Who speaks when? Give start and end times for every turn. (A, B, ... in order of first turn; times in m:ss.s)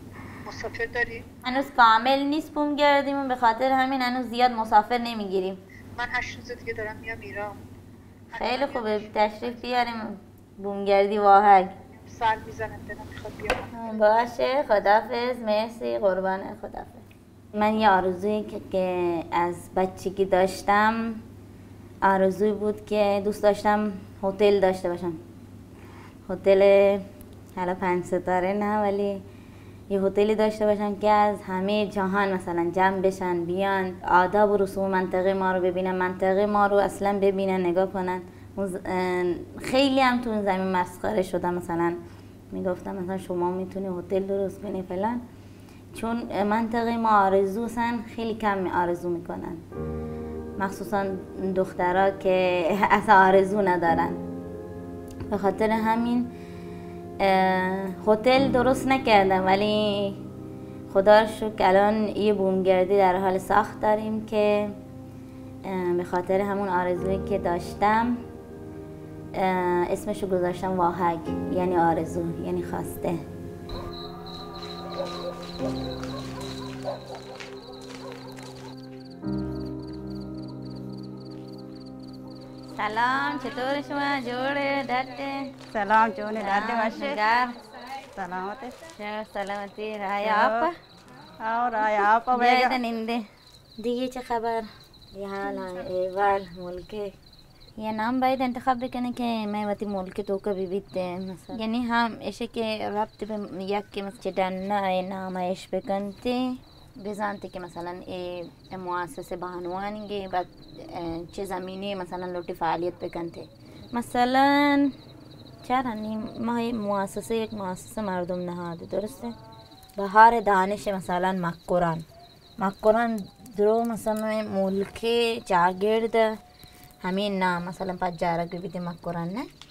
0:00.4-0:01.2 A
0:01.4-0:05.6 B
0:06.0-0:07.6 A
0:08.3-0:09.6 A
0:08.4-0:11.7 B
0:11.9-0:14.0 A
0:13.7-0:21.2 B
0:22.0-0:25.2 B
0:26.3-0:29.2 B
0:29.9-0:42.0 B
0:42.5-0:45.2 B
0:45.9-0:49.6 B
0:50.6-0:54.2 B
0:55.3-0:56.3 B
0:57.2-1:00.2 B
1:00.9-1:04.7 B
1:05.7-1:08.2 B
1:09.4-1:13.2 B
1:22.8-1:25.6 B
1:25.7-1:27.2 C
1:26.4-1:27.6 B
1:28.2-1:28.8 C
1:29.0-1:30.8 B
1:30.2-1:30.7 C
1:31.4-1:32.8 C
1:32.3-1:33.3 B
1:33.8-1:37.1 B
1:37.8-1:55.0 B
1:55.6-1:59.3 B
2:00.0-2:02.0 B
2:02.6-2:06.4 B
2:07.0-2:09.5 B